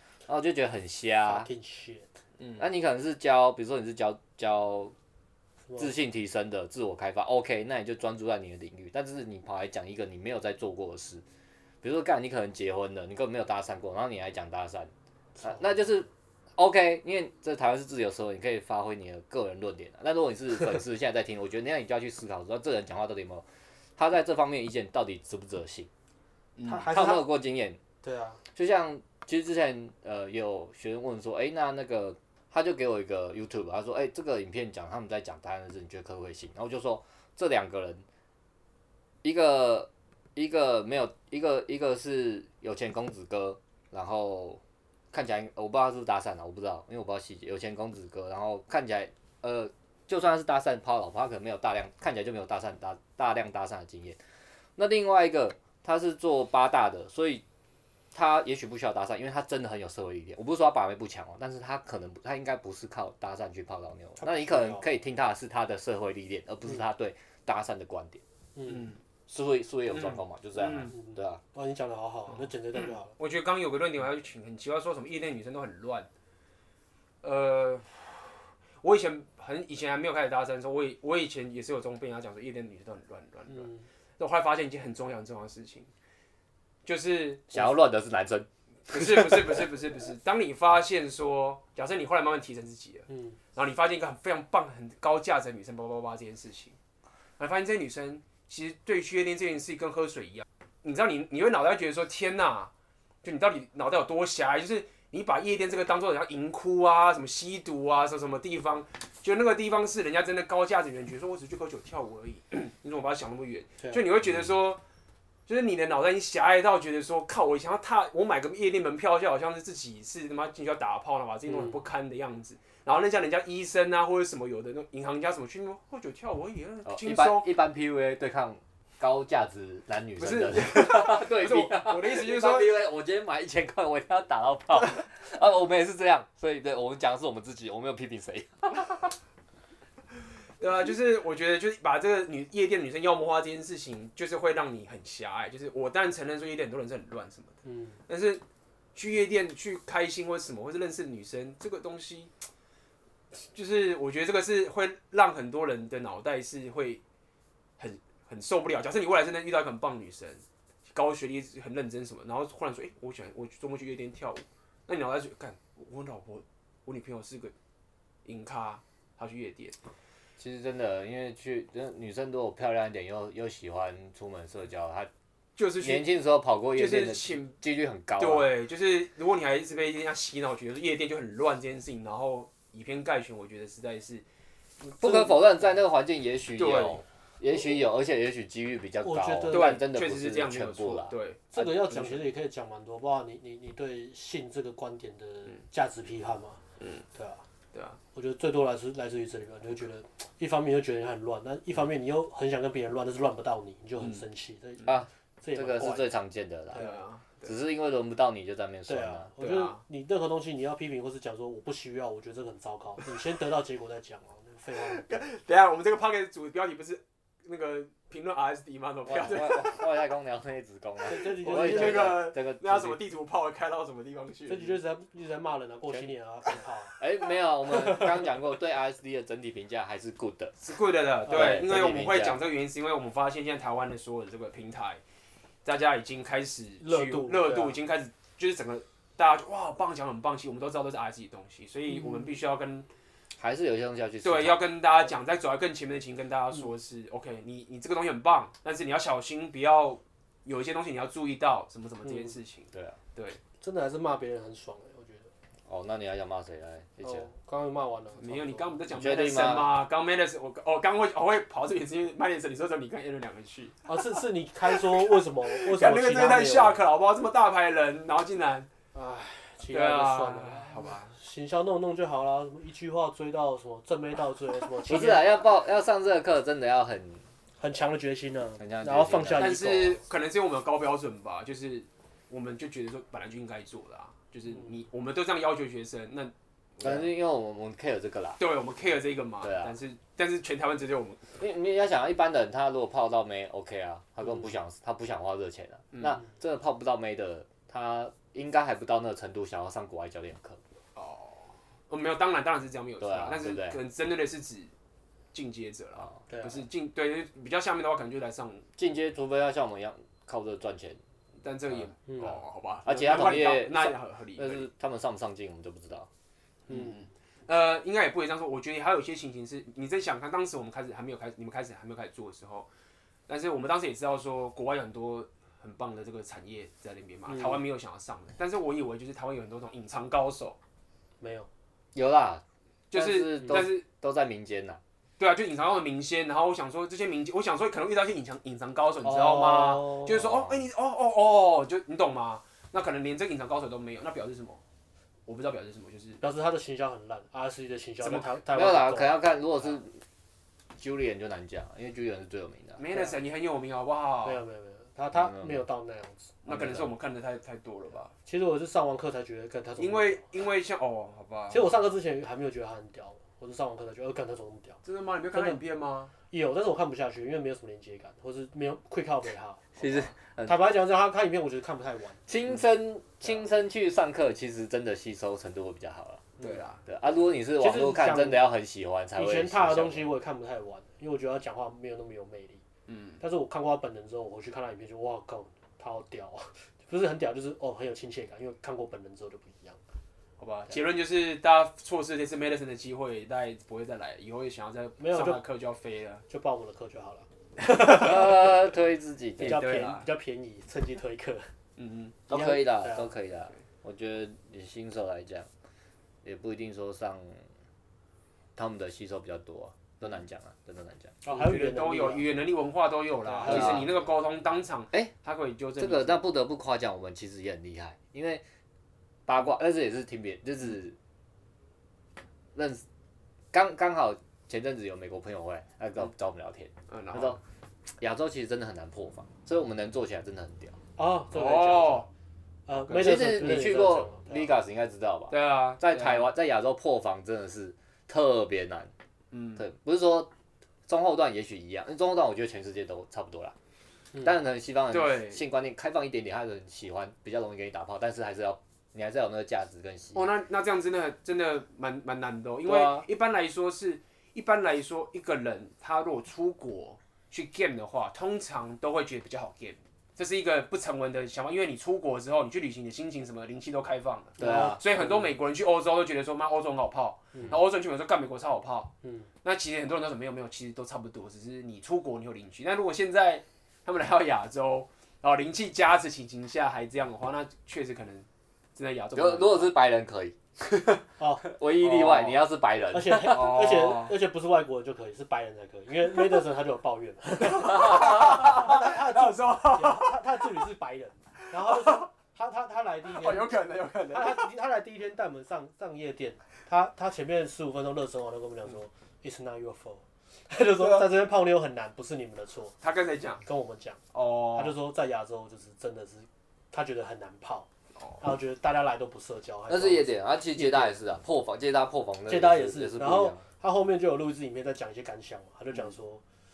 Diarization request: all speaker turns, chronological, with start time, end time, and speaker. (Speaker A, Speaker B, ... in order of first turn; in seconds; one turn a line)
Speaker A: 0.3-1.5
Speaker B: 1.2-2.1
Speaker A: 2.6-4.9
Speaker A: 5.8-11.2
Speaker A: 11.8-14.9
Speaker B: 15.4-15.8
Speaker A: 15.4-23.4
Speaker A: 24.0-25.9
Speaker C: 26.6-26.9
Speaker B: 26.6-27.3
Speaker A: 26.9-27.8
Speaker B: 28.0-28.4
Speaker A: 28.5-38.0
Speaker A: 39.2-44.6
Speaker A: 45.1-54.2
Speaker A: 54.8-57.4
Speaker A: 58.1-68.2
Speaker B: 64.2-64.8
Speaker B: 68.5-68.9
Speaker C: 68.7-69.0
Speaker A: 69.3-71.4
Speaker C: 69.9-70.9
Speaker B: 70.9-73.1
Speaker C: 72.7-76.1
Speaker C: 77.2-85.9
Speaker B: 83.5-83.8
Speaker C: 86.8-87.5
Speaker A: 87.5-89.6
Speaker C: 88.9-96.8
Speaker B: 93.1-93.4
Speaker C: 97.4-102.7
Speaker C: 103.2-114.8
Speaker C: 115.5-127.5
Speaker B: 121.5-121.8
Speaker A: 126.8-139.1
Speaker C: 130.2-132.8
Speaker C: 140.6-147.5
Speaker B: 147.6-148.0
Speaker C: 148.1-148.4
Speaker C: 148.9-152.3
Speaker C: 153.3-157.0
Speaker C: 157.8-167.5
Speaker C: 168.2-169.8
Speaker A: 170.4-175.1
Speaker C: 175.6-176.1
Speaker A: 175.8-178.5
Speaker C: 176.7-177.6
Speaker C: 178.2-184.2
Speaker B: 184.8-185.3
Speaker A: 185.0-191.1
Speaker C: 186.6-187.0
Speaker B: 189.0-189.8
Speaker C: 189.5-192.3
Speaker B: 191.5-196.6
Speaker C: 196.8-197.0
Speaker B: 197.1-197.4
Speaker C: 197.7-198.0
Speaker B: 198.1-206.1
Speaker A: 204.8-206.8
Speaker B: 206.7-207.0
Speaker C: 206.7-207.5
Speaker A: 207.4-209.3
Speaker B: 208.9-215.4
Speaker C: 209.4-209.8
Speaker C: 214.9-219.8
Speaker A: 219.0-223.0
Speaker B: 221.0-222.3
Speaker C: 221.4-224.8
Speaker B: 224.5-227.0
Speaker A: 227.0-230.5
Speaker C: 230.6-235.0
Speaker B: 231.3-231.6
Speaker A: 231.3-232.4
Speaker C: 235.6-242.9
Speaker B: 236.8-237.8
Speaker B: 241.9-242.4
Speaker A: 243.4-244.6
Speaker C: 244.2-253.4
Speaker B: 252.1-252.3
Speaker A: 252.7-253.0
Speaker B: 253.6-255.3
Speaker A: 255.7-257.3
Speaker B: 257.0-258.8
Speaker C: 258.2-263.9
Speaker A: 258.9-259.7
Speaker B: 263.9-266.8
Speaker C: 264.7-268.7
Speaker B: 268.9-275.3
Speaker C: 269.7-271.2
Speaker A: 274.9-277.2
Speaker B: 277.6-280.0
Speaker A: 278.6-279.6
Speaker C: 279.4-287.1
Speaker A: 286.8-288.4
Speaker C: 288.4-291.3
Speaker A: 289.4-289.7
Speaker A: 291.4-300.6
Speaker C: 295.9-296.2
Speaker C: 300.9-304.7
Speaker A: 303.0-303.8
Speaker C: 305.3-308.6
Speaker B: 306.3-306.6
Speaker A: 308.8-311.0
Speaker C: 311.4-314.7
Speaker B: 312.1-312.3
Speaker A: 312.8-316.1
Speaker B: 316.7-317.0
Speaker C: 316.7-322.7
Speaker C: 323.3-330.6
Speaker B: 327.3-327.6
Speaker B: 331.2-331.5
Speaker A: 331.9-334.8
Speaker C: 332.9-333.8
Speaker C: 335.2-344.6
Speaker B: 339.0-340.1
Speaker A: 340.1-340.6
Speaker C: 345.3-346.2
Speaker B: 346.2-349.2
Speaker C: 348.0-348.4
Speaker A: 348.5-350.0
Speaker A: 350.8-352.8
Speaker C: 352.8-354.4
Speaker B: 354.2-356.4
Speaker A: 355.1-355.6
Speaker C: 356.4-358.1
Speaker A: 356.5-356.9
Speaker B: 358.2-360.2
Speaker C: 359.8-361.7
Speaker B: 361.5-364.8
Speaker C: 364.8-366.1
Speaker B: 365.3-365.6
Speaker B: 366.3-372.2
Speaker A: 369.8-370.6
Speaker A: 372.3-376.2
Speaker C: 376.4-376.8
Speaker A: 376.8-380.1
Speaker B: 377.6-378.4
Speaker B: 379.1-382.6
Speaker C: 382.9-383.2
Speaker B: 383.2-389.8
Speaker C: 390.4-396.2
Speaker B: 395.0-395.4
Speaker B: 396.3-398.4
Speaker A: 397.8-399.6
Speaker C: 399.4-400.1
Speaker B: 399.4-401.5
Speaker C: 401.8-402.2
Speaker B: 402.3-403.1
Speaker A: 402.3-405.5
Speaker A: 406.2-407.4
Speaker A: 408.6-411.1
Speaker B: 411.2-412.3
Speaker C: 411.3-416.2
Speaker B: 413.3-413.9
Speaker A: 413.4-413.9
Speaker A: 415.8-418.4
Speaker A: 419.3-421.0
Speaker A: 422.5-422.8
Speaker A: 423.5-427.4
Speaker C: 426.9-427.4
Speaker A: 428.0-430.8
Speaker B: 431.0-432.1
Speaker C: 431.3-432.1
Speaker B: 432.7-434.5
Speaker C: 432.9-433.1
Speaker A: 432.9-438.9
Speaker C: 435.3-436.3
Speaker C: 439.3-439.6
Speaker A: 439.6-440.3
Speaker A: 440.9-443.5
Speaker A: 444.2-450.3
Speaker C: 444.9-445.4
Speaker C: 450.1-468.9
Speaker A: 452.6-453.1
Speaker B: 464.4-465.3
Speaker A: 464.4-464.8
Speaker B: 467.3-467.6
Speaker B: 469.0-469.3
Speaker C: 469.4-479.7
Speaker A: 479.1-483.5
Speaker B: 481.2-481.5
Speaker C: 481.8-482.4
Speaker B: 482.9-493.5
Speaker C: 483.2-484.1
Speaker C: 487.4-490.2
Speaker C: 491.6-492.1
Speaker C: 493.1-494.4
Speaker B: 494.1-502.7
Speaker C: 500.8-501.1
Speaker C: 502.8-503.4
Speaker B: 503.4-504.0
Speaker C: 504.1-504.8
Speaker B: 504.5-507.7
Speaker C: 507.9-508.2
Speaker B: 508.2-510.9
Speaker A: 509.7-513.4
Speaker B: 512.3-516.2